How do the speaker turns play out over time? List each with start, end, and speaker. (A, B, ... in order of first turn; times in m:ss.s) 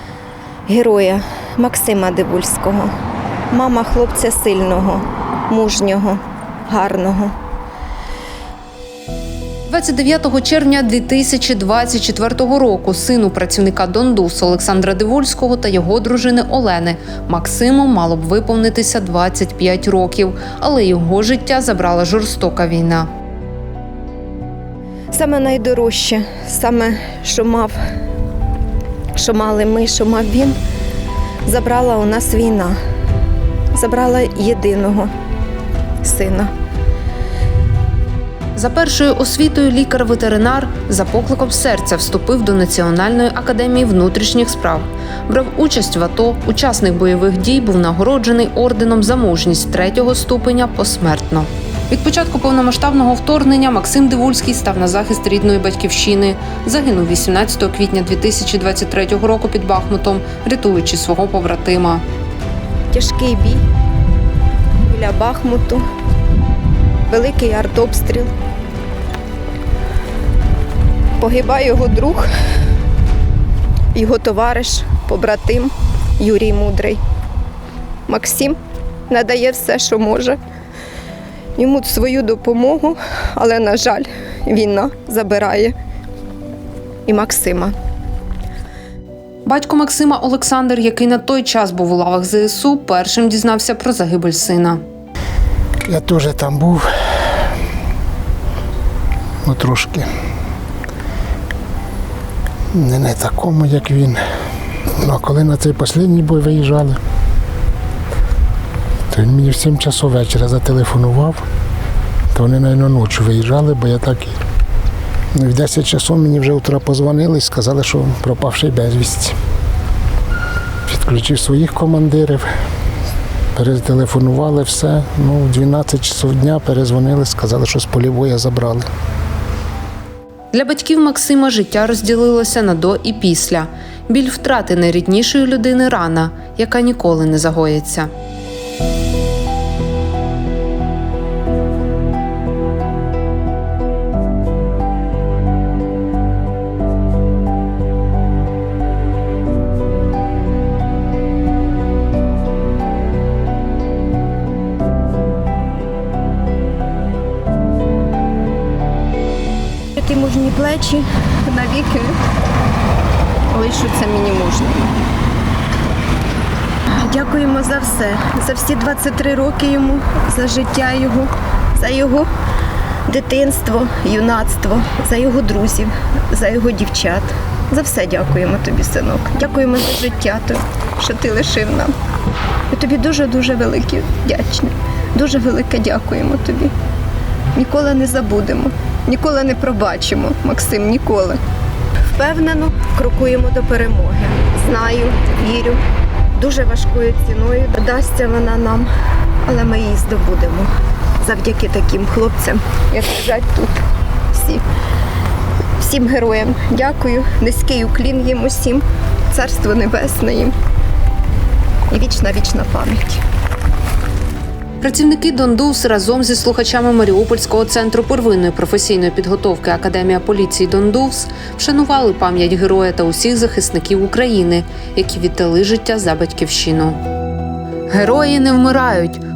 0:00.7-0:02.9 A
0:03.5-0:07.3 A
0:09.7-0:23.1 B
0:25.1-0:27.8 A
0:29.2-0:30.6 A
0:31.4-0:32.8 A
0:33.7-0:35.1 A
0:36.0-0:36.5 A
0:38.6-1:02.0 B
1:02.9-1:03.6 A
1:04.8-1:05.9 A
1:07.1-1:08.3 A
1:11.2-1:12.3 A
1:13.9-1:17.0 A
1:18.1-1:18.6 A
1:19.1-1:20.4 A
1:21.6-1:25.7 A
1:27.1-1:27.8 A
1:29.4-1:34.8 B
1:35.8-1:36.9 C
1:39.4-1:40.1 C
1:42.7-1:44.2 C
1:45.0-1:47.0 C
1:49.1-1:51.4 C
1:52.3-1:54.4 C
1:55.3-1:59.4 C
2:00.9-2:02.5 C
2:03.5-2:08.9 C
2:10.5-2:18.1 B
2:40.0-2:42.2 A
2:43.5-2:44.9 A
2:47.0-2:52.3 A
2:53.1-3:01.9 A
3:02.7-3:06.7 A
3:07.5-3:11.4 A
3:12.1-3:15.8 A
3:16.3-3:18.9 A
3:19.5-3:23.8 A
3:24.3-3:24.6 A
3:25.8-3:30.5 A
3:31.9-3:33.2 A
3:34.8-3:47.0 B
3:47.9-3:49.2 B